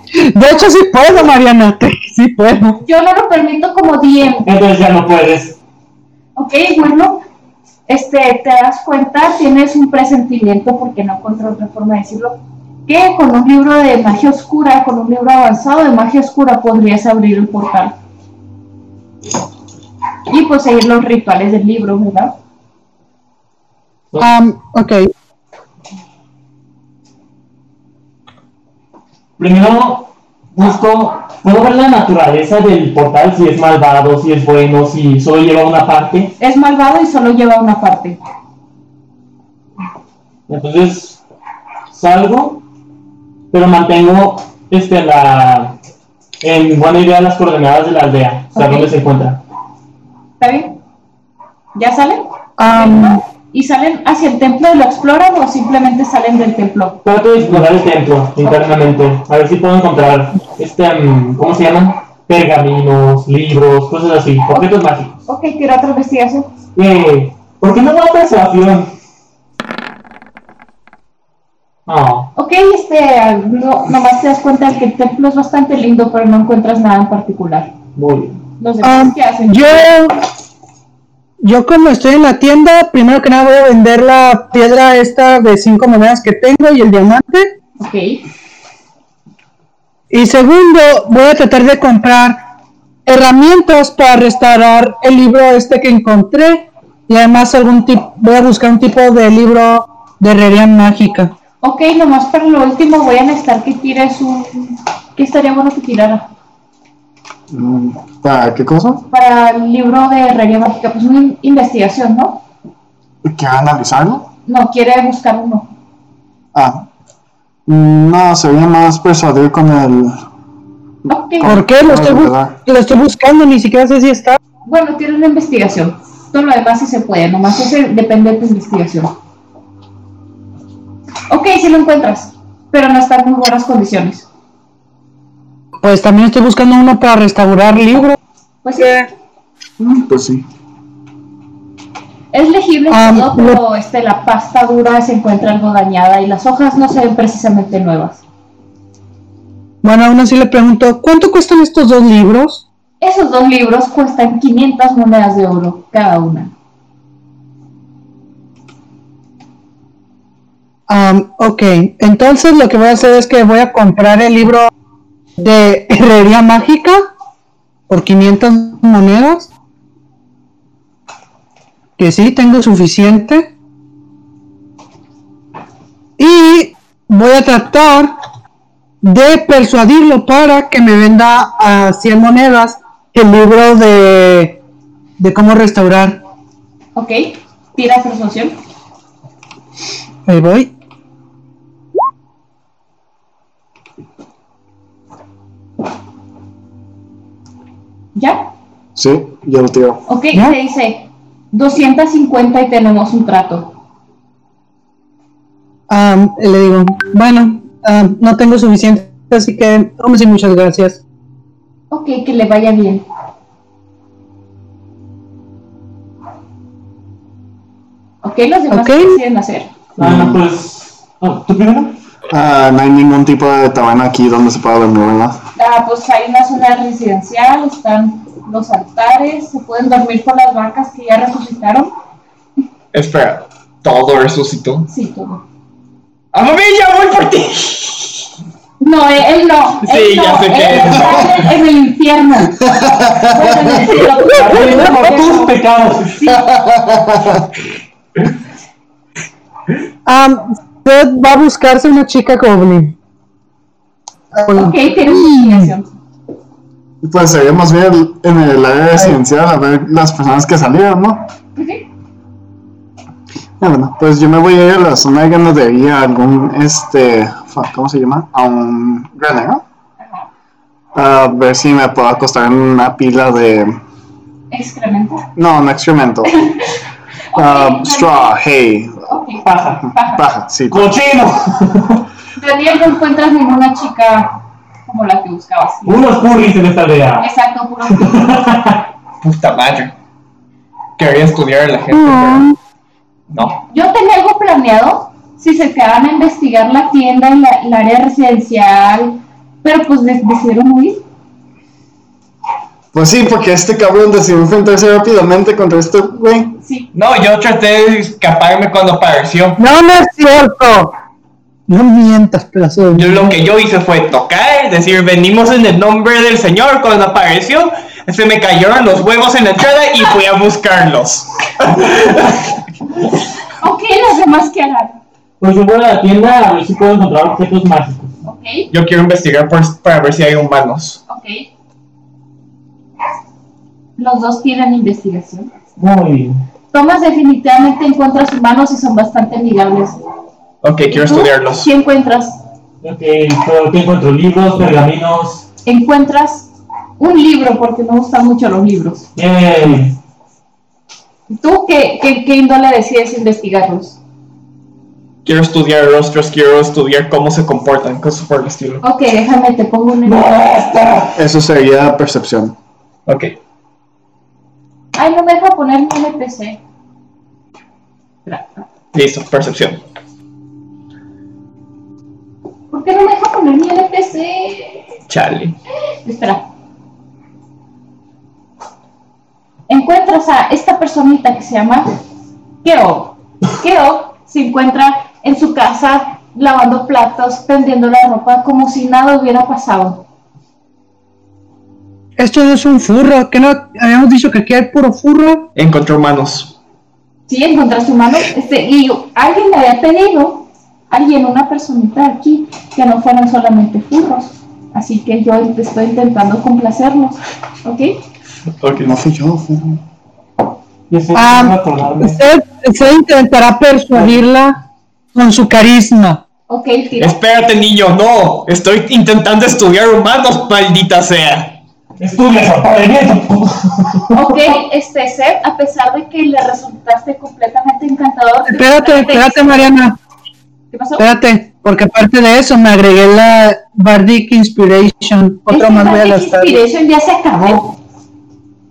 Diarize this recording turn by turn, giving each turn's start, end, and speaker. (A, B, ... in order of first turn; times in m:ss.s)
0:00.2-0:02.8 A
0:02.8-0:04.5 B
0:04.4-0:05.6 C
0:06.4-0:07.2 B
0:07.9-0:18.0 B
0:20.3-0:22.4 B
0:24.2-0:25.1 A
0:29.4-0:36.3 C
0:36.4-0:38.2 B
0:40.5-0:41.2 C
0:41.9-0:42.6 C
0:43.5-0:45.8 C
0:46.4-0:49.4 C
0:48.6-0:48.9 B
0:50.4-0:50.8 B
0:51.8-0:57.0 B
0:52.6-0:53.2 A
0:57.0-1:05.2 C
1:05.3-1:06.5 B
1:06.8-1:08.9 C
1:11.9-1:12.3 C
1:12.4-1:17.7 B
1:18.0-1:18.4 C
1:18.6-1:19.9 B
1:18.8-1:20.2 A
1:21.4-1:27.6 A
1:27.8-1:28.2 B
1:30.1-1:32.4 A
1:33.1-1:41.3 A
1:41.6-1:46.3 B
1:47.5-1:49.1 D
1:49.1-1:52.4 B
1:53.2-1:54.3 D
1:54.5-1:55.7 B
1:56.5-1:56.9 D
1:57.7-2:00.2 D
2:01.1-2:02.6 D
2:01.1-2:01.6 B
2:01.4-2:04.4 A
2:04.6-2:09.1 B
2:11.3-2:14.3 B
2:15.8-2:18.2 A
2:18.6-2:19.1 B
2:19.8-2:20.4 D
2:22.3-2:28.2 B
2:22.9-2:23.6 A
2:29.8-2:32.6 A
2:33.0-2:36.5 B
2:40.9-2:44.7 A
2:45.4-2:47.1 A
2:47.9-2:49.5 A
2:52.0-2:53.5 A
2:56.2-2:58.2 A
2:59.0-3:04.6 A
3:05.2-3:06.2 A
3:07.0-3:08.6 B
3:10.3-3:10.7 A
3:18.2-3:18.5 B
3:19.0-3:20.0 D
3:20.1-3:23.8 B
3:25.9-3:31.0 A
3:31.9-3:33.1 B
3:38.2-3:39.7 B
3:38.7-3:39.2 A
3:40.0-3:42.0 C
3:40.0-3:40.4 D
3:42.3-3:45.4 D
3:45.6-3:52.0 B
3:52.9-3:54.9 E
3:54.9-3:55.4 B
3:56.3-3:58.1 E
3:58.8-4:02.7 B
3:59.8-4:01.5 E
4:02.6-4:03.6 D
4:03.3-4:05.5 B
4:03.9-4:06.2 C
4:06.1-4:06.5 B
4:06.3-4:07.5 D
4:10.1-4:13.0 A
4:14.3-4:15.7 A
4:14.5-4:15.9 B
4:17.0-4:21.3 D
4:21.6-4:21.8 B
4:23.6-4:29.6 D
4:30.0-4:30.3 B
4:30.9-4:33.8 D
4:34.5-4:35.3 B
4:35.4-4:36.4 D
4:37.3-4:38.4 B
4:37.4-4:39.1 D
4:39.1-4:40.2 B
4:39.4-4:39.9 C
4:40.1-4:41.0 D
4:40.7-4:42.0 C
4:42.4-4:46.2 B
4:45.9-4:47.3 C
4:47.2-4:48.4 B
4:47.9-4:48.8 C
4:49.2-4:49.9 E
4:51.0-4:52.5 E
4:53.3-4:53.6 E
4:53.7-5:01.0 B
5:02.9-5:06.6 D
5:06.6-5:06.9 B
5:06.9-5:09.6 E
5:09.6-5:10.9 A
5:11.7-5:13.2 A
5:12.9-5:22.4 E
5:23.6-5:25.0 B
5:25.4-5:28.1 C
5:28.2-5:28.7 B
5:28.7-5:31.0 E
5:31.1-5:31.5 B
5:34.0-5:35.5 B
5:35.8-5:36.4 C
5:36.7-5:40.0 B
5:40.6-5:41.7 E
5:40.9-5:42.4 B
5:42.8-5:45.4 C
5:45.6-5:49.1 B
5:49.2-5:50.0 C
5:51.3-5:54.0 B
5:55.2-5:58.8 E
5:58.8-6:00.5 B
6:00.1-6:01.2 C
6:01.1-6:02.6 D
6:03.1-6:03.4 E
6:05.0-6:06.6 B
6:08.3-6:08.6 B
6:08.9-6:09.8 E
6:12.7-6:14.9 B
6:15.1-6:15.6 E
6:16.0-6:16.5 B
6:19.7-6:21.9 B
6:22.6-6:30.1 B
6:32.2-6:35.5 A
6:35.6-6:36.6 E
6:37.3-6:48.0 B
6:48.6-6:49.0 E
6:48.8-6:49.8 D
6:50.9-6:52.2 C
6:51.1-6:54.6 A
6:55.1-6:56.2 A
6:56.5-6:57.2 B
6:57.0-7:01.6 E
7:02.0-7:04.1 C
7:04.1-7:09.7 B
7:08.5-7:10.0 A
7:10.7-7:11.0 B
7:11.0-7:16.6 A
7:15.5-7:17.8 B